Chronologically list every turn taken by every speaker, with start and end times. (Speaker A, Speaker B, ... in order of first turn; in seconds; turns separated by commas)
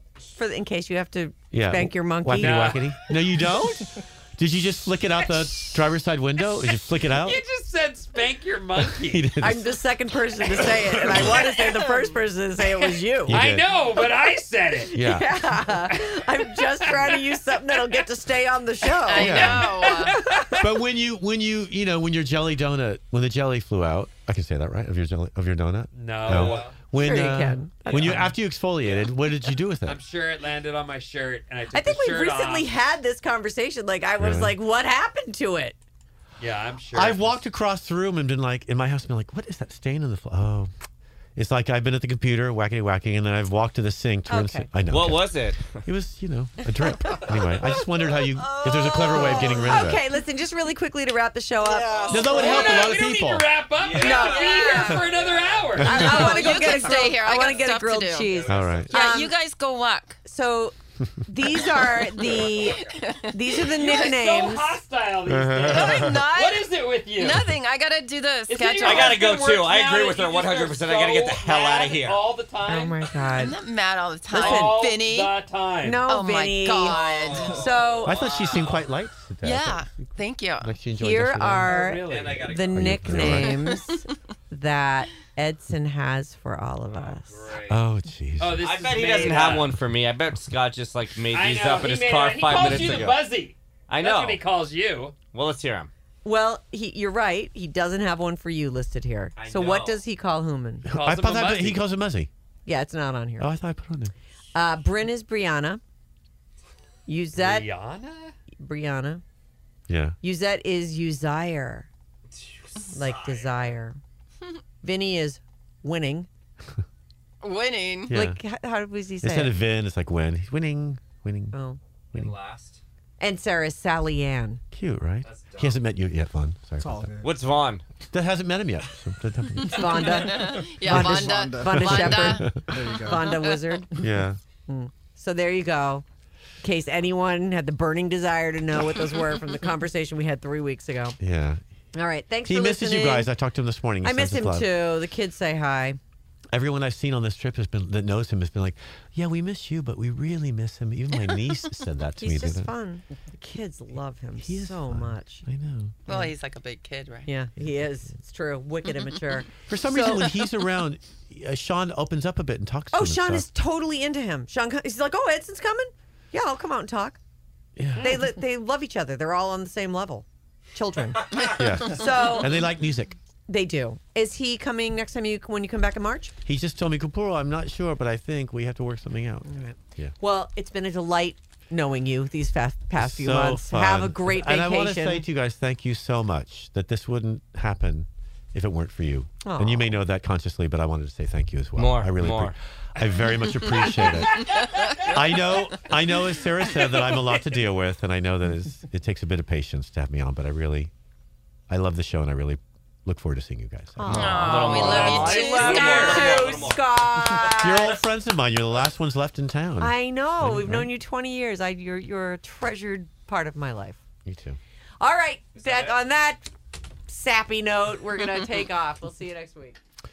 Speaker A: 0.3-2.7, Speaker B: 1.5-7.4, Speaker C: 2.3-2.9, Speaker C: 7.2-9.3, Speaker B: 8.8-9.7, Speaker A: 9.4-13.4, Speaker C: 12.8-14.9, Speaker B: 13.3-13.6, Speaker B: 14.9-15.4, Speaker A: 14.9-19.6, Speaker C: 15.9-18.0, Speaker D: 19.1-20.2, Speaker C: 19.1-20.8, Speaker B: 19.1-19.8, Speaker A: 20.1-20.5, Speaker B: 20.5-30.0, Speaker C: 25.9-26.7, Speaker E: 26.3-26.9, Speaker A: 26.9-28.3, Speaker C: 27.9-28.3, Speaker C: 29.8-32.7, Speaker A: 31.7-35.8, Speaker B: 34.2-34.5, Speaker C: 36.4-37.4, Speaker B: 36.9-40.7, Speaker B: 41.4-50.0, Speaker A: 44.3-44.7, Speaker E: 44.9-45.8, Speaker D: 48.7-49.7, Speaker A: 48.8-52.7, Speaker E: 51.6-53.0, Speaker B: 52.1-53.4, Speaker C: 52.2-56.4, Speaker E: 53.8-56.2, Speaker A: 54.0-55.0, Speaker D: 54.0-55.1, Speaker A: 55.8-59.3, Speaker B: 55.8-56.3, Speaker D: 55.9-58.3, Speaker E: 58.3-59.0, Speaker B: 58.5-58.9, Speaker D: 58.9-60.2, Speaker A: 60.2-60.7, Speaker A: 61.3-64.8, Speaker D: 62.5-64.0, Speaker C: 63.8-67.5, Speaker B: 65.2-66.2, Speaker D: 65.7-69.3, Speaker C: 68.5-73.0, Speaker E: 68.8-72.2, Speaker A: 72.7-73.6, Speaker D: 73.3-75.3, Speaker A: 74.3-74.8, Speaker C: 74.3-76.1, Speaker A: 75.8-78.3, Speaker D: 76.1-77.7, Speaker E: 76.8-78.9, Speaker B: 78.0-81.7, Speaker D: 79.4-80.8, Speaker A: 80.9-87.6, Speaker C: 81.7-82.5, Speaker E: 82.0-83.2, Speaker B: 82.7-83.7, Speaker D: 83.2-83.7, Speaker E: 86.9-87.8, Speaker B: 87.7-88.8, Speaker C: 88.4-89.7, Speaker E: 88.6-93.2, Speaker C: 91.3-95.1, Speaker B: 92.5-93.1, Speaker E: 93.9-94.4, Speaker E: 95.3-95.9, Speaker A: 96.2-100.9, Speaker E: 99.3-100.0, Speaker B: 100.8-102.3, Speaker C: 100.9-101.8, Speaker A: 102.7-103.5, Speaker B: 103.4-104.1, Speaker A: 104.5-105.8, Speaker A: 107.1-107.7, Speaker C: 107.3-108.3, Speaker A: 108.6-109.2, Speaker B: 109.9-110.2, Speaker A: 110.2-111.9, Speaker E: 112.3-113.7, Speaker A: 112.9-114.0, Speaker A: 114.8-116.3, Speaker D: 117.4-118.2, Speaker B: 118.1-118.4, Speaker A: 118.1-119.6, Speaker B: 119.2-121.6, Speaker A: 121.5-121.8, Speaker E: 122.1-122.8, Speaker A: 123.2-124.6, Speaker B: 124.7-127.1, Speaker E: 125.2-125.8, Speaker F: 126.8-127.3, Speaker E: 127.2-127.8, Speaker B: 128.1-130.2, Speaker A: 129.7-133.9, Speaker D: 130.1-132.6, Speaker F: 130.4-133.4, Speaker B: 130.9-132.8, Speaker D: 133.2-133.6, Speaker B: 133.9-134.4, Speaker A: 134.7-136.0, Speaker A: 136.6-141.2, Speaker B: 141.2-141.6, Speaker A: 141.9-143.3, Speaker B: 142.4-144.7, Speaker A: 144.0-146.0, Speaker B: 146.5-152.7, Speaker A: 152.2-155.4, Speaker B: 154.4-155.9, Speaker D: 156.1-157.3, Speaker A: 156.1-156.3, Speaker A: 157.3-160.3, Speaker B: 159.7-163.4, Speaker A: 162.9-167.2, Speaker B: 167.8-168.2, Speaker A: 168.0-172.6, Speaker B: 171.5-173.1, Speaker A: 173.5-176.3, Speaker B: 176.4-180.1, Speaker A: 179.4-185.2, Speaker B: 183.0-200.9, Speaker A: 189.4-189.9, Speaker E: 191.8-192.5, Speaker C: 193.0-195.2, Speaker B: 201.7-204.4, Speaker A: 204.0-208.0, Speaker D: 204.1-206.2, Speaker E: 204.3-207.8, Speaker C: 204.7-206.8, Speaker B: 207.4-210.9, Speaker A: 209.8-214.0, Speaker B: 214.2-214.6, Speaker A: 215.0-216.4, Speaker E: 215.6-215.9, Speaker A: 217.1-219.8